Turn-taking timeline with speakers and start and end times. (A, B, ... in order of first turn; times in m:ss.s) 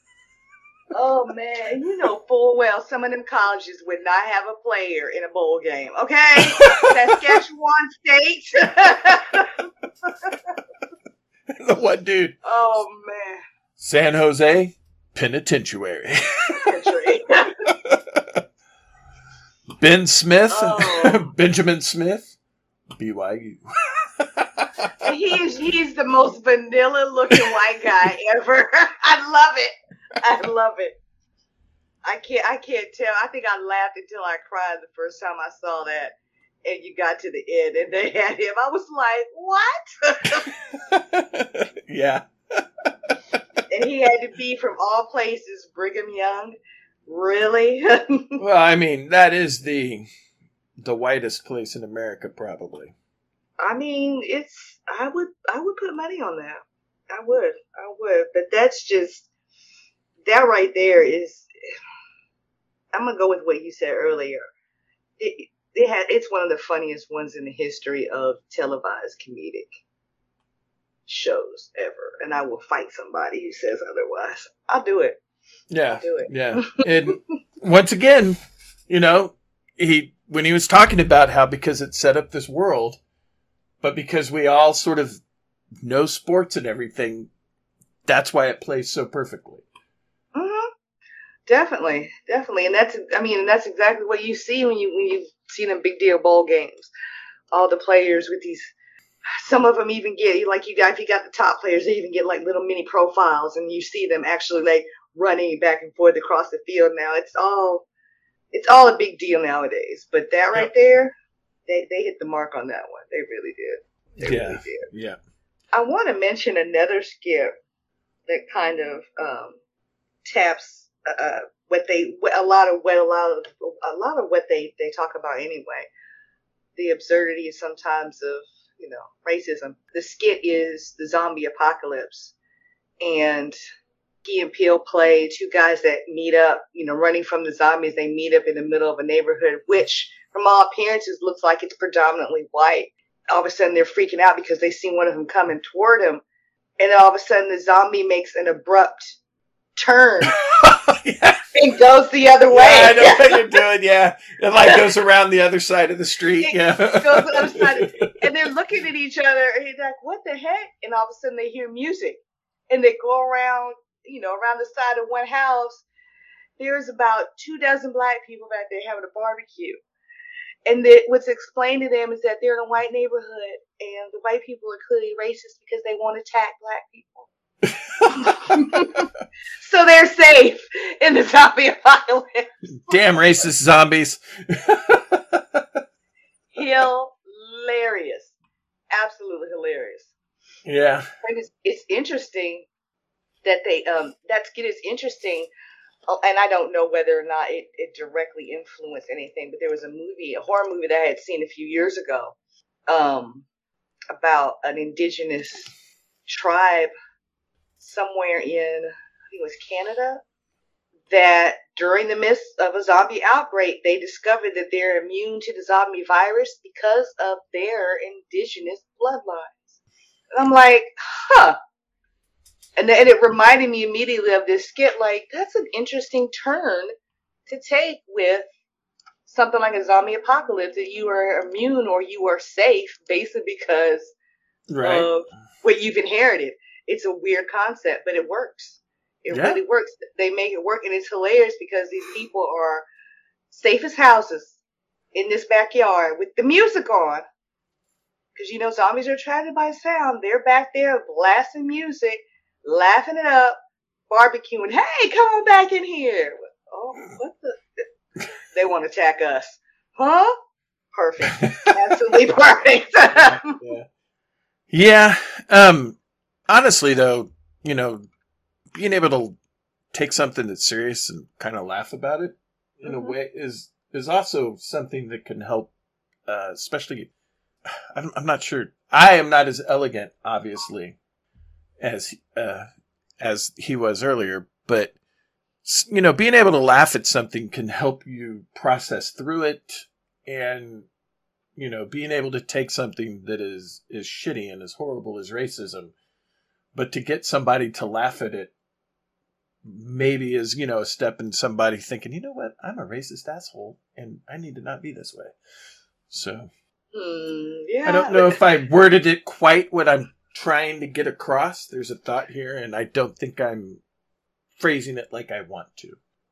0:00.9-0:09.6 A
0:06.4-0:07.4 B
0:11.6-0:12.4 B
0:12.4-0:13.4 A
0:13.8-0:16.9 B
0:16.6-0:17.6 A
0:17.7-0:18.2 B
0:19.8-0:22.3 B
0:20.5-0:21.3 A
0:23.0-0:25.1 B
0:25.0-0:31.0 A
0:32.0-0:36.1 A
0:36.6-0:40.5 A
0:40.8-0:43.2 B
0:43.7-0:46.6 A
0:47.1-0:48.4 A
0:48.4-0:50.1 B
0:50.8-0:52.9 B
0:53.6-0:59.3 A
1:00.3-1:01.5 A
1:02.9-1:04.5 A
1:05.2-1:09.8 A
1:11.1-1:15.2 A
1:15.7-1:23.0 B
1:16.0-1:16.8 A
1:23.8-1:25.2 B
1:25.8-1:27.3 B
1:28.1-1:29.6 B
1:30.4-1:30.7 A
1:31.5-1:36.9 A
1:37.5-1:38.7 A
1:39.4-1:47.8 A
1:48.5-1:51.1 A
1:51.7-1:54.9 A
1:54.2-1:55.2 B
1:55.7-1:57.5 A
1:58.3-1:59.6 A
2:00.3-2:05.9 A
2:06.8-2:12.3 A
2:13.0-2:13.6 A
2:14.2-2:26.2 A
2:26.8-2:29.2 A
2:29.8-2:30.4 A
2:30.3-2:31.5 B
2:31.6-2:33.5 A
2:32.5-2:38.1 B
2:36.4-2:42.2 A
2:42.7-2:45.8 A
2:46.6-2:49.8 A
2:50.7-2:57.3 A
2:58.0-2:58.7 B
2:58.1-2:59.1 A
2:59.6-3:03.0 A
3:02.8-3:05.6 B
3:06.5-3:08.4 A
3:08.9-3:10.1 A
3:10.7-3:11.1 B
3:11.2-3:12.7 A
3:13.4-3:15.5 A
3:16.1-3:22.4 A
3:22.9-3:23.4 A
3:24.1-3:25.7 A
3:26.3-3:26.9 A
3:27.8-3:30.2 A
3:31.1-3:39.8 A
3:40.3-3:41.6 A
3:42.8-3:46.9 A
3:47.5-3:48.5 A
3:49.3-3:54.1 A
3:54.7-3:55.1 B
3:54.8-4:02.9 A
3:59.3-3:59.6 B
4:03.5-4:04.6 A
4:05.1-4:07.2 A
4:08.4-4:13.6 A
4:14.1-4:17.8 A
4:18.5-4:20.4 A
4:20.9-4:23.6 A
4:23.1-4:23.9 B
4:24.7-4:26.0 B
4:26.5-4:28.1 B
4:28.8-4:29.4 B
4:29.9-4:35.7 B
4:32.8-4:33.2 A
4:36.3-4:37.1 B
4:37.9-4:41.0 B
4:41.8-4:42.7 B
4:43.2-4:44.9 B
4:45.6-4:50.9 B
4:51.6-4:55.9 B
4:56.8-4:58.5 B
4:59.6-5:05.3 B
5:06.1-5:06.5 B
5:06.9-5:08.4 A
5:07.8-5:13.8 B
5:14.6-5:16.0 B